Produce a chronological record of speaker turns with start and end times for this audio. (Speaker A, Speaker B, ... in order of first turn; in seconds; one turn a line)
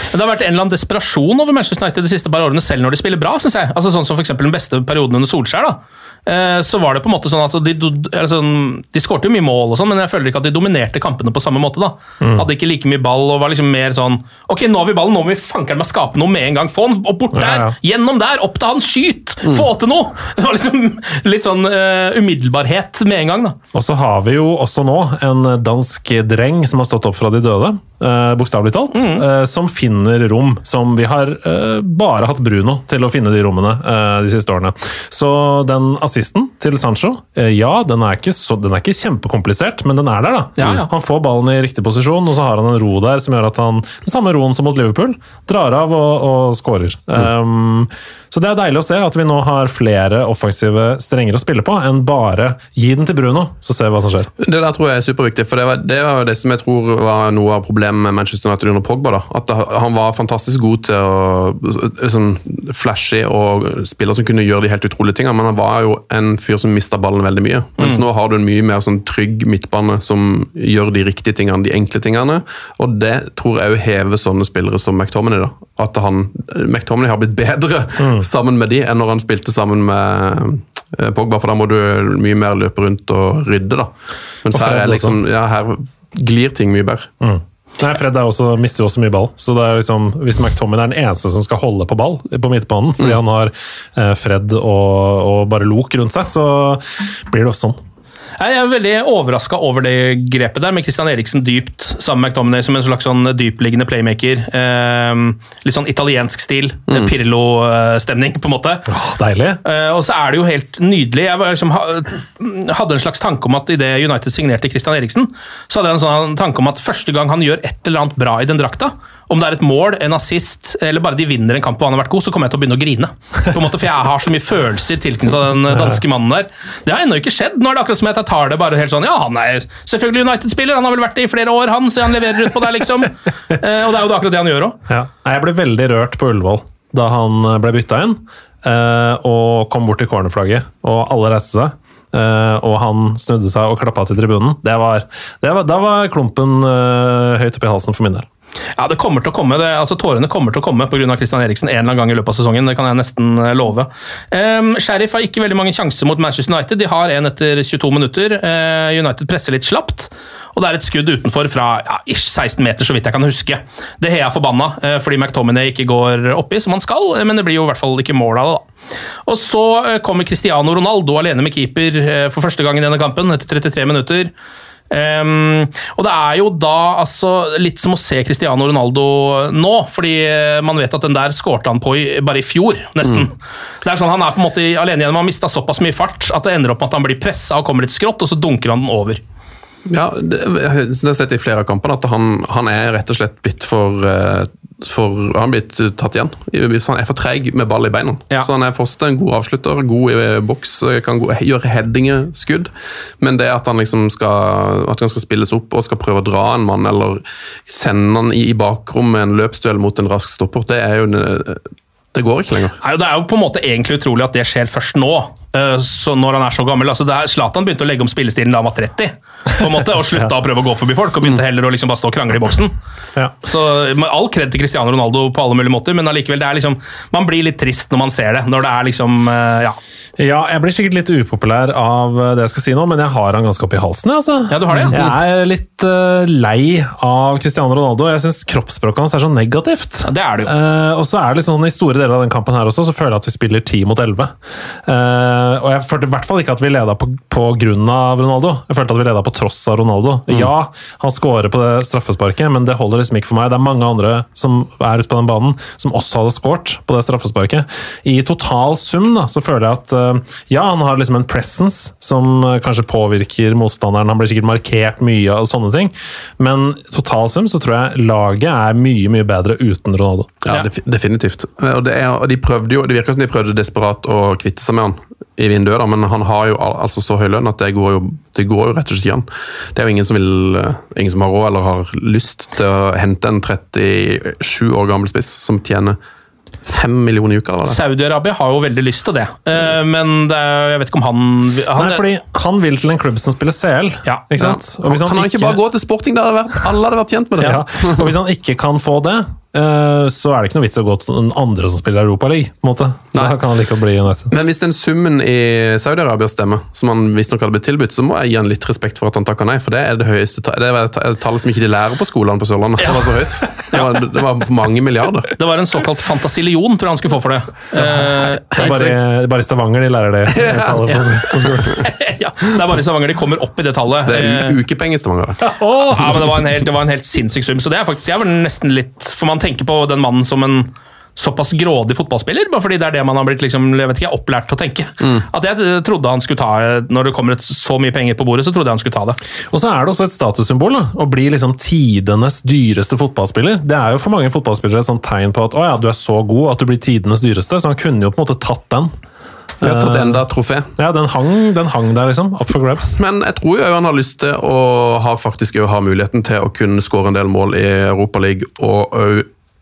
Speaker A: 0.1-23.6
Speaker B: 12.2-12.5
Speaker B: 17.3-17.7
Speaker B: 23.7-54.3
Speaker A: 28.9-29.2
Speaker A: 40.6-40.9
Speaker C: 54.4-83.9
Speaker B: 78.0-78.3
Speaker C: 84.4-87.1
Speaker B: 84.5-85.2
Speaker B: 87.2-97.8
Speaker A: 98.4-108.9
Speaker B: 108.9-109.6
Speaker A: 109.6-134.8
Speaker B: 134.9-148.3
Speaker A: 148.8-168.7
Speaker A: 169.3-174.3
Speaker A: 174.9-189.2
Speaker C: 189.9-211.6
Speaker C: 212.1-212.8
Speaker A: 212.8-222.7
Speaker A: 223.4-229.8
Speaker B: 230.2-244.3
Speaker A: 234.5-235.1
Speaker A: 240.1-240.5
Speaker B: 244.9-270.4
Speaker C: 270.4-286.0
Speaker C: 286.6-287.8
Speaker A: 287.7-292.0
Speaker B: 291.8-295.6
Speaker C: 294.4-298.1
Speaker B: 297.4-304.3
Speaker C: 304.3-315.3
Speaker A: 312.8-313.9
Speaker A: 315.4-318.8
Speaker B: 318.0-321.8
Speaker C: 318.5-319.0
Speaker C: 320.3-321.6
Speaker A: 321.7-324.6
Speaker C: 324.1-325.4
Speaker B: 325.6-326.1
Speaker A: 325.9-339.2
Speaker B: 339.5-348.9
Speaker B: 349.6-350.2
Speaker C: 349.6-350.7
Speaker B: 350.8-353.0
Speaker C: 353.0-359.3